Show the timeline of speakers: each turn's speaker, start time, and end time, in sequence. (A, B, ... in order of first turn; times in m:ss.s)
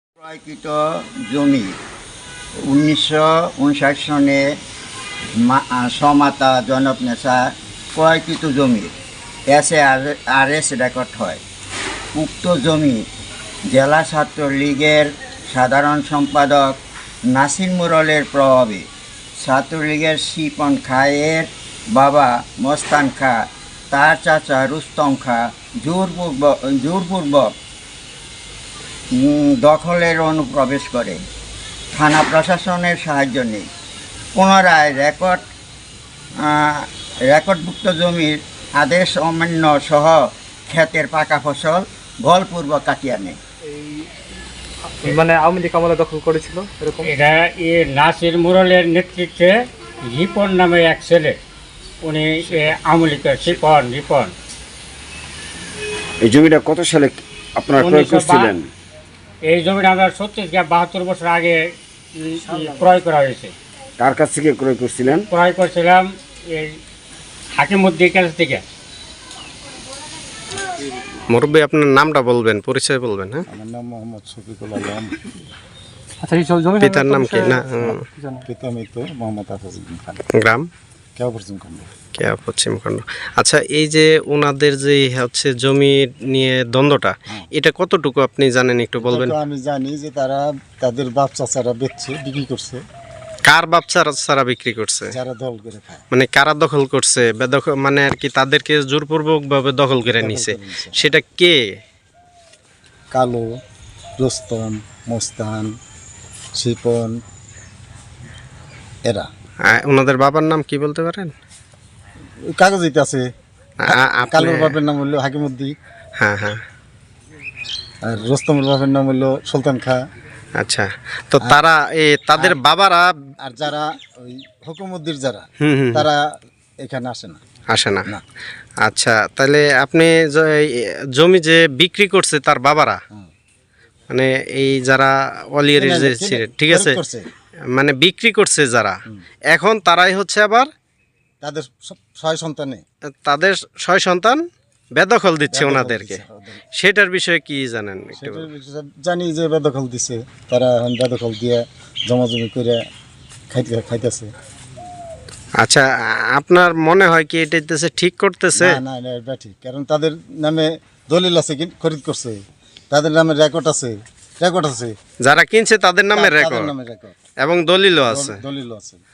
0:00.2-0:00.8 A
0:01.3-0:01.7 A
0:02.7-0:04.4 A
0:05.4-0:08.9 A
0:09.5-0:11.4 A
0:12.1-0:13.0 A
0:13.7-0:16.8 A
0:17.3-0:18.8 A
0:19.4-0:23.4 A
0:23.9-0:27.5 A
0:29.2-0:31.2 A
0:31.9-0:33.7 A
0:34.4-0:35.4 A
0:36.4-0:43.4 A
0:43.7-0:44.0 B
0:45.0-0:47.1 B
0:47.0-0:51.4 C
0:52.0-0:54.3 C
0:56.2-0:58.7 D
0:57.8-0:58.6 C
0:59.5-1:03.5 C
1:02.5-1:03.0 E
1:04.0-1:05.3 D
1:05.3-1:06.8 C
1:07.6-1:08.6 C
1:11.3-1:13.4 F
1:13.5-1:15.4 E
1:16.2-1:18.4 B
1:16.8-1:18.0 F
1:18.5-1:20.2 E
1:20.4-1:20.7 F
1:21.2-1:21.9 E
1:22.2-1:29.3 F
1:29.0-1:32.8 E
1:33.5-1:35.1 F
1:35.1-1:36.0 E
1:36.1-1:41.6 F
1:40.2-1:41.1 E
1:43.1-1:43.4 E
1:44.2-1:45.7 E
1:46.6-1:47.2 E
1:49.7-1:51.3 F
1:52.5-1:53.3 E
1:53.8-1:54.7 F
1:53.8-1:55.7 E
1:56.2-1:56.6 F
1:58.0-2:00.0 E
2:00.6-2:03.1 F
2:03.4-2:06.2 E
2:05.6-2:06.0 F
2:06.8-2:07.4 E
2:07.7-2:08.1 F
2:08.8-2:13.0 F
2:14.1-2:17.0 F
2:15.7-2:17.2 E
2:17.7-2:19.0 F
2:19.5-2:20.7 F
2:21.4-2:22.8 E
2:23.2-2:24.4 F
2:24.9-2:26.2 F
2:25.5-2:26.6 E
2:26.8-2:28.4 F
2:28.2-2:32.8 E
2:33.5-2:34.3 E
2:35.6-2:38.8 F
2:38.6-2:42.4 E
2:42.9-2:44.9 E
2:45.2-2:46.7 F
2:46.1-2:47.2 E
2:47.4-2:48.3 F
2:48.1-2:49.0 E